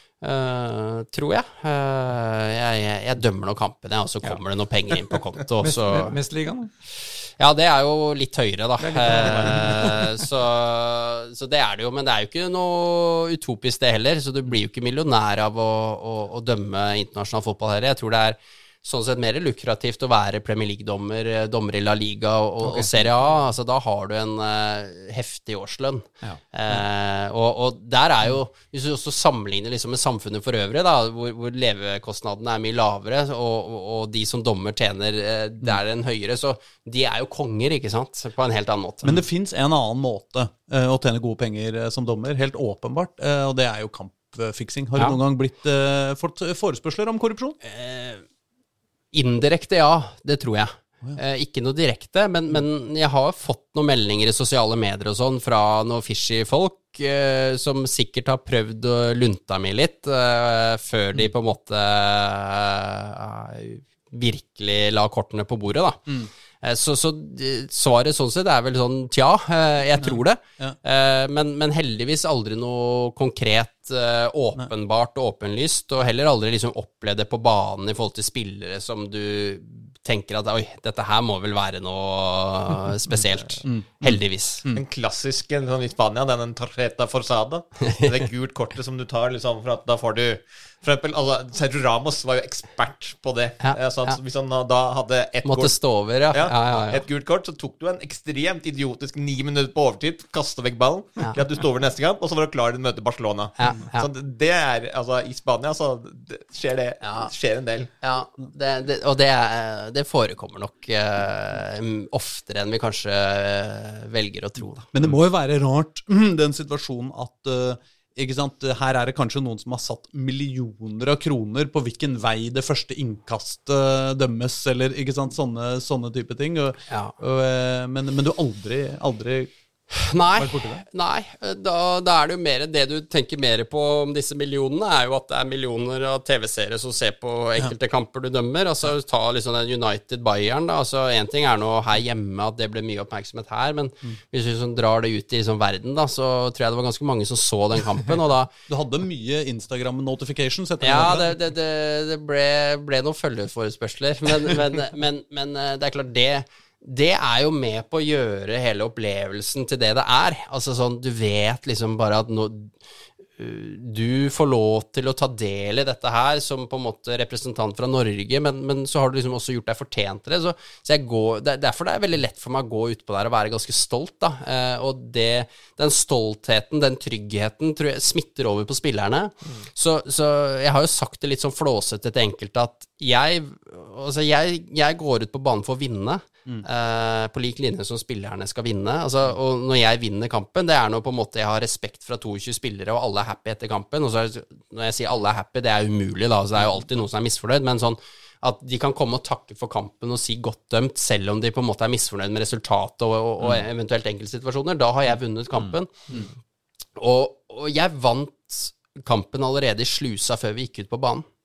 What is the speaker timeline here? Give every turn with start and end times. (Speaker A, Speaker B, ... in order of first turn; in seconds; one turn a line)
Speaker A: 0.2-6.2
Speaker B: 5.6-6.7
Speaker A: 7.4-39.2
Speaker B: 8.8-10.2
Speaker C: 9.5-9.8
Speaker C: 26.2-26.8
Speaker C: 39.0-47.6
Speaker A: 47.6-48.2
Speaker A: 49.1-66.1
Speaker A: 66.6-84.7
Speaker C: 70.0-70.8
Speaker C: 83.7-84.8
Speaker D: 84.7-95.8
Speaker A: 93.6-94.2
Speaker A: 95.4-97.0
Speaker D: 96.3-107.9
Speaker A: 103.6-104.1
Speaker A: 107.0-107.3
Speaker A: 108.0-114.9
Speaker C: 114.9-129.5
Speaker A: 126.9-127.1
Speaker A: 129.9-148.5
Speaker C: 130.3-130.8
Speaker C: 148.7-151.3
Speaker A: 150.8-162.8
Speaker A: 163.4-205.9
Speaker A: 207.0-211.3